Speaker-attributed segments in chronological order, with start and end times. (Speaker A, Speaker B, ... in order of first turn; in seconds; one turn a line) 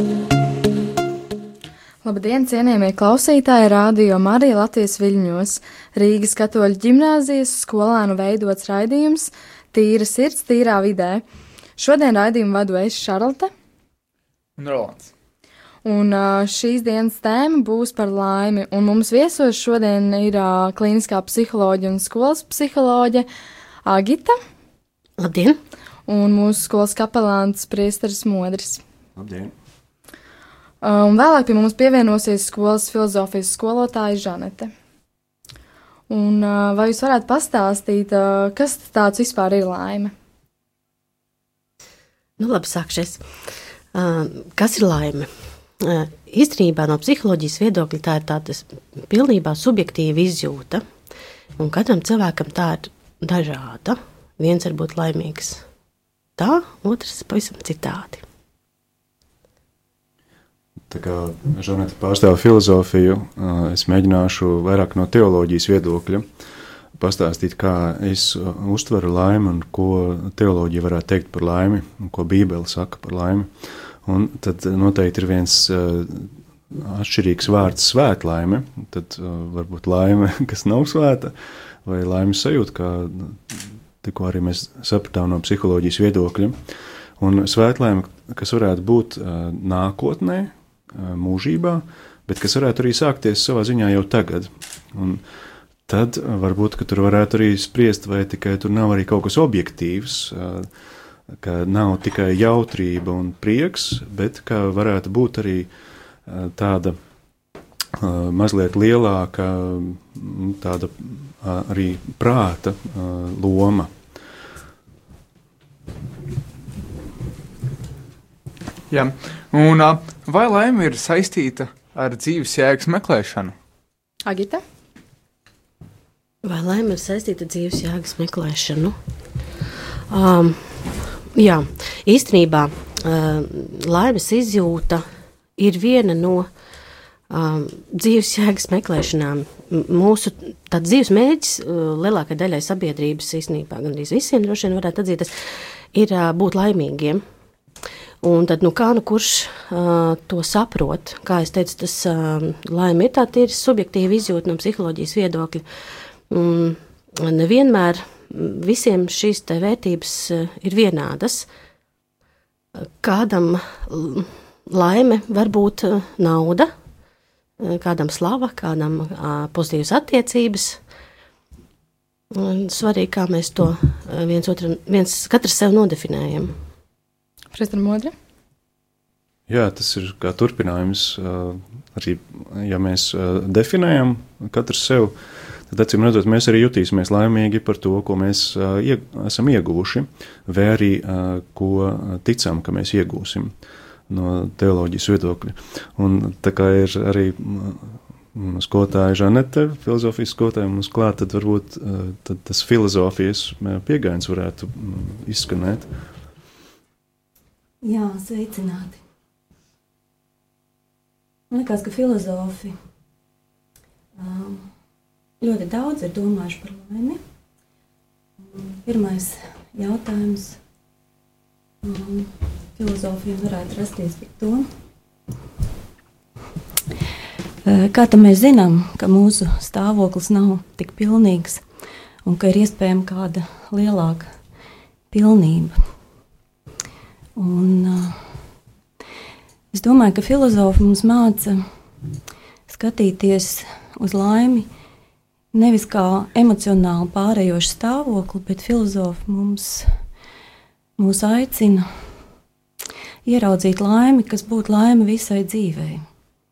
Speaker A: 2.0-11.2
Speaker A: 11.8-13.5
Speaker B: 14.6-15.1
Speaker A: 15.8-23.3
Speaker A: 23.8-24.4
Speaker C: 25.2-25.6
Speaker A: 26.1-28.8
Speaker D: 29.1-29.5
Speaker A: 30.8-34.7
Speaker A: 36.1-40.1
Speaker C: 42.4-43.3
Speaker C: 43.9-45.3
Speaker C: 45.8-50.8
Speaker C: 51.6-55.6
Speaker C: 56.4-58.2
Speaker D: 60.9-66.2
Speaker D: 67.0-73.5
Speaker D: 74.0-86.6
Speaker D: 87.2-95.2
Speaker D: 95.9-100.7
Speaker D: 101.3-105.7
Speaker D: 106.2-107.0
Speaker D: 108.0-113.9
Speaker B: 118.9-123.5
Speaker A: 124.2-124.6
Speaker C: 126.4-128.9
Speaker C: 130.1-136.5
Speaker C: 137.3-147.2
Speaker C: 148.2-155.7
Speaker C: 156.3-161.5
Speaker C: 163.0-166.7
Speaker C: 167.6-170.8
Speaker C: 172.3-176.6
Speaker A: 177.5-178.1
Speaker D: 179.5-185.1
Speaker D: 185.7-193.5
Speaker D: 194.1-205.9
Speaker E: 207.8-209.0
Speaker E: 211.5-212.8
Speaker E: 214.2-214.7
Speaker E: 215.4-217.2
Speaker E: 218.4-220.6
Speaker E: 221.8-224.7
Speaker E: 227.6-231.6
Speaker E: 232.2-234.3
Speaker E: 235.1-235.8
Speaker E: 237.3-238.2
Speaker E: 239.7-241.6
Speaker E: 242.7-244.7
Speaker E: 245.5-249.9
Speaker E: 251.0-251.9
Speaker E: 253.2-256.0